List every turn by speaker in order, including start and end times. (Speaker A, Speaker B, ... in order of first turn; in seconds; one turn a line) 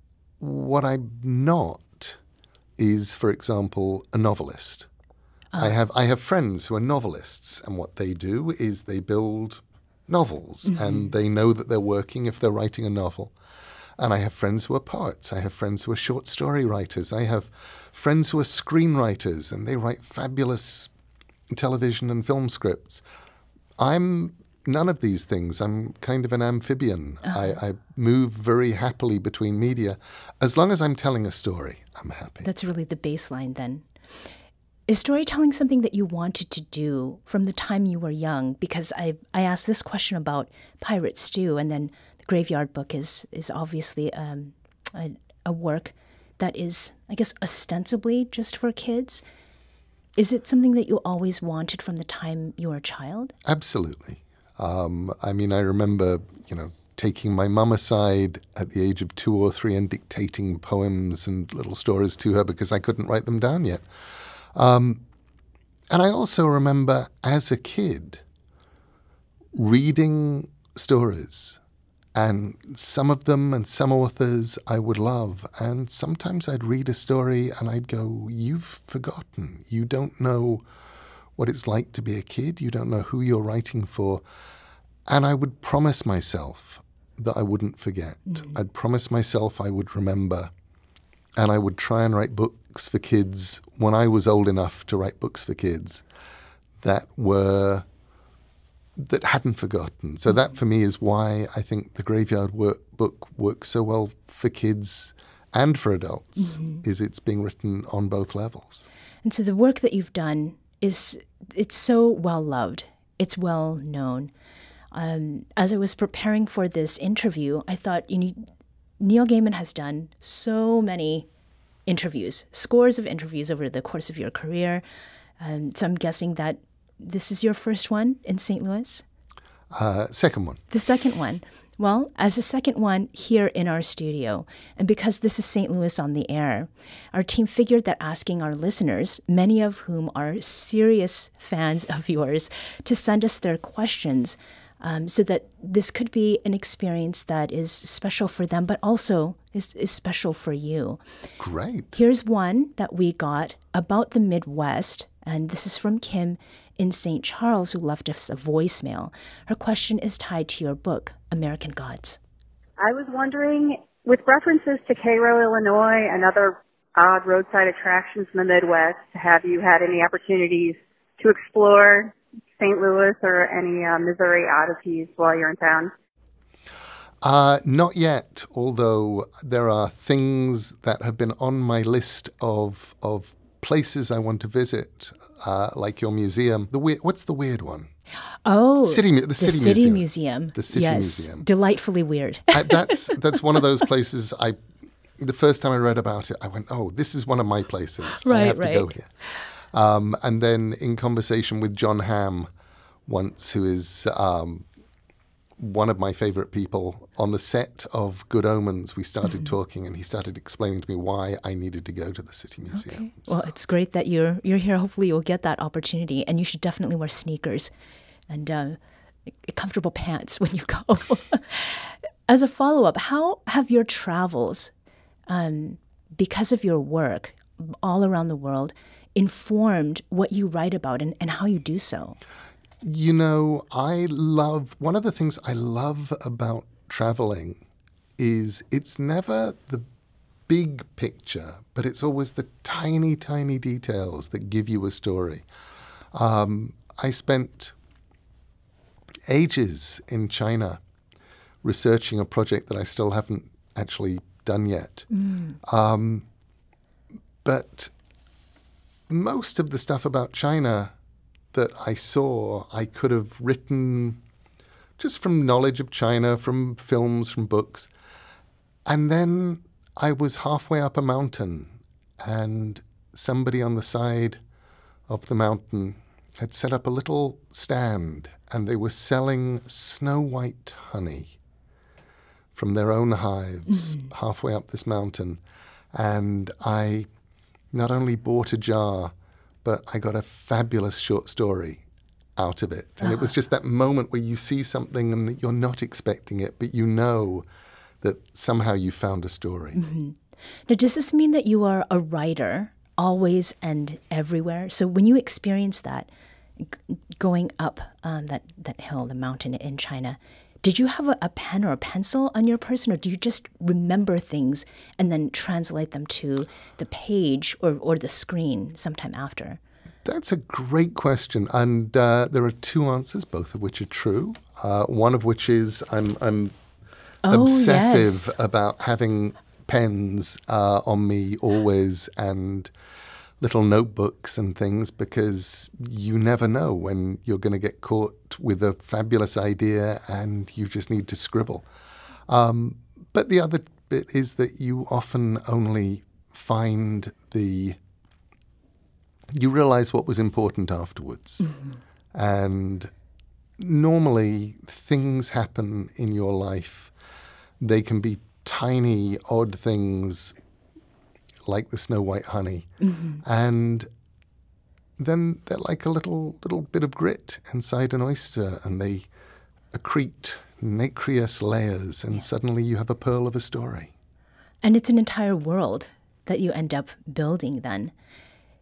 Speaker A: 0.4-2.2
Speaker A: 2.8-4.9
Speaker A: 5.6-13.3
Speaker B: 10.7-11.1
Speaker A: 14.0-20.9
Speaker A: 21.5-23.0
Speaker A: 23.8-32.5
Speaker B: 27.2-27.6
Speaker B: 32.4-33.8
Speaker B: 34.9-49.2
Speaker B: 50.2-53.3
Speaker A: 53.4-63.9
Speaker A: 64.5-65.0
Speaker A: 65.9-68.2
Speaker A: 69.5-71.6
Speaker A: 72.1-80.6
Speaker A: 81.4-84.2
Speaker A: 85.1-90.5
Speaker A: 91.3-96.0
Speaker A: 96.8-97.8
Speaker A: 99.0-108.9
Speaker B: 106.4-106.8
Speaker B: 109.2-114.3
Speaker B: 114.9-118.5
Speaker B: 119.0-121.3
Speaker B: 121.9-124.8
Speaker B: 125.4-129.0
Speaker A: 129.7-130.6
Speaker B: 130.7-151.0
Speaker A: 151.4-151.9
Speaker B: 151.9-162.2
Speaker C: 162.8-175.9
Speaker A: 177.2-187.9
Speaker B: 188.4-193.2
Speaker A: 188.8-191.5
Speaker A: 192.5-194.6
Speaker A: 195.2-199.1
Speaker B: 198.2-198.9
Speaker A: 199.7-202.5
Speaker A: 203.1-204.6
Speaker A: 205.6-213.3
Speaker B: 212.7-217.7
Speaker B: 218.3-218.8
Speaker B: 219.4-224.7
Speaker B: 225.3-232.2
Speaker A: 232.8-237.6
Speaker A: 238.2-239.8
Speaker A: 240.5-245.4
Speaker A: 246.1-247.7
Speaker A: 249.3-250.8
Speaker A: 251.6-255.1
Speaker B: 255.1-255.6
Speaker A: 255.6-256.2
Speaker A: 257.4-257.9
Speaker A: 259.1-260.9
Speaker A: 261.5-264.2
Speaker A: 265.0-267.9
Speaker A: 268.9-274.4
Speaker A: 275.1-281.3
Speaker A: 282.5-285.4
Speaker B: 283.7-284.1
Speaker A: 285.9-287.1
Speaker A: 287.7-289.1
Speaker A: 289.6-291.8
Speaker A: 292.4-297.4
Speaker B: 293.0-293.3
Speaker A: 298.0-299.8
Speaker B: 299.7-300.2
Speaker B: 300.7-319.6
Speaker A: 320.0-326.5
Speaker B: 327.2-328.3
Speaker A: 327.2-332.7
Speaker A: 333.4-341.7
Speaker A: 342.3-347.8
Speaker A: 349.3-351.5
Speaker A: 352.1-352.9
Speaker A: 353.6-356.9
Speaker A: 357.6-360.3
Speaker A: 361.4-363.9
Speaker B: 362.8-363.2
Speaker A: 365.0-369.1
Speaker A: 369.7-373.9
Speaker B: 374.6-377.9